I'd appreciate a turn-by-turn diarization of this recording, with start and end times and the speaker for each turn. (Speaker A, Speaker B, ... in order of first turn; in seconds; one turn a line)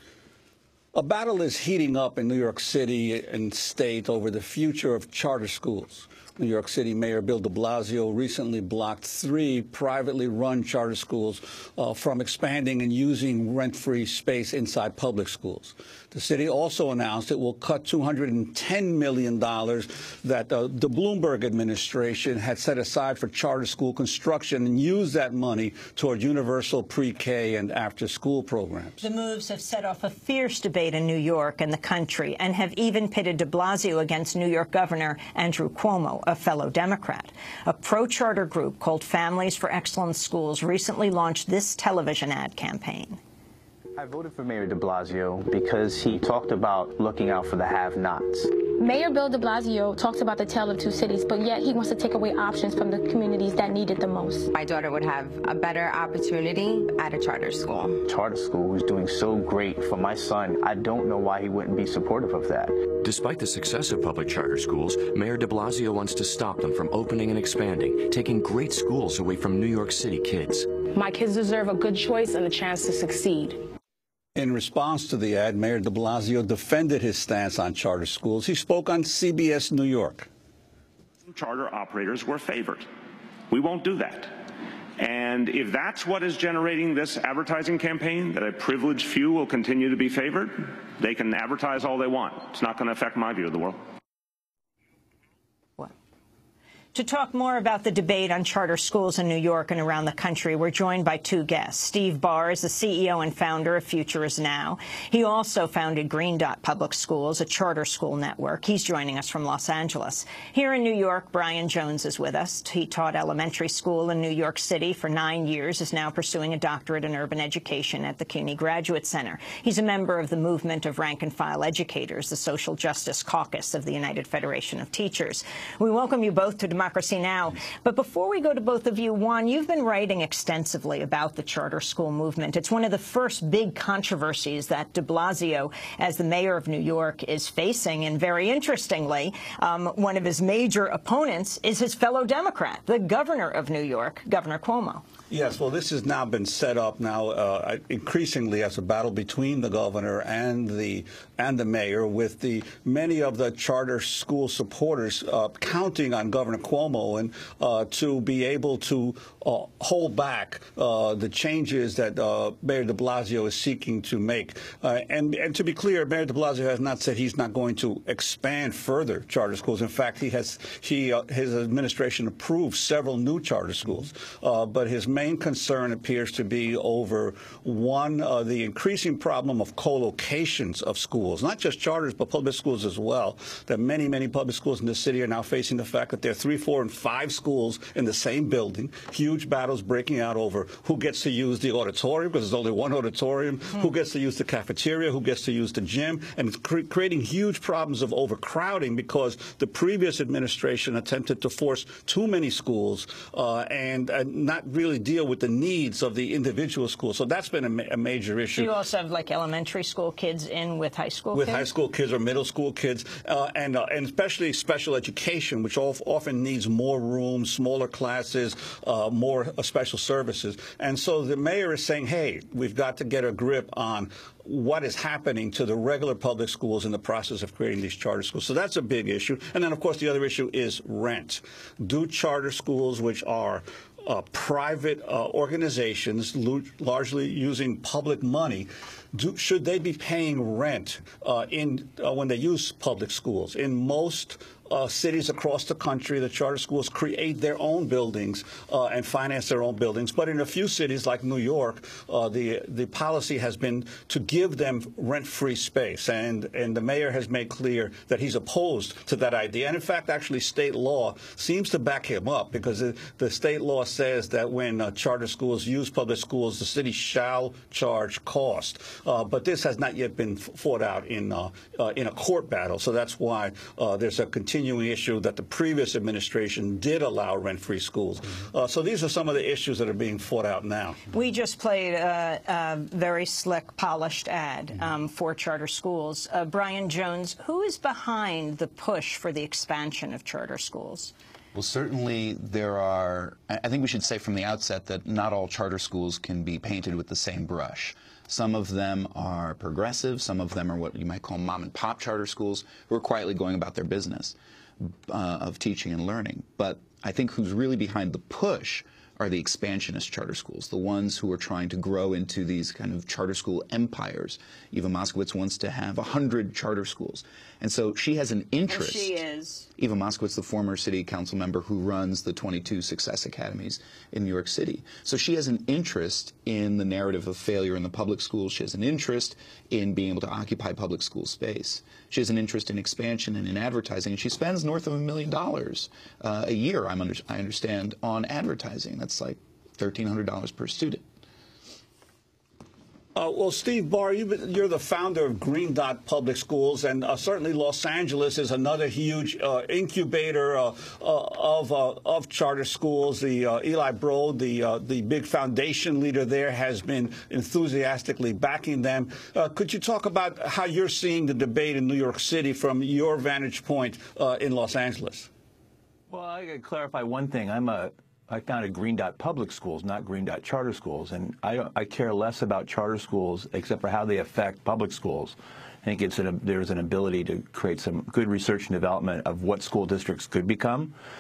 Speaker A: 0.9-29.0
Speaker B: 29.0-43.2
Speaker C: 44.0-48.6
Speaker D: 48.8-54.5
Speaker E: 54.5-58.0
Speaker C: 58.0-62.9
Speaker F: 63.0-70.7
Speaker G: 70.9-73.6
Speaker A: 74.3-80.3
Speaker H: 81.2-82.9
Speaker H: 83.5-84.5
Speaker H: 85.0-93.8
Speaker B: 96.9-145.1
Speaker A: 145.3-208.7
Speaker B: 208.5-211.7
Speaker A: 211.3-281.0
Speaker B: 281.1-291.1
Speaker I: 291.5-319.2
Speaker B: 318.7-319.7
Speaker I: 319.8-341.0
Speaker A: 343.1-365.3
Speaker J: 366.1-380.9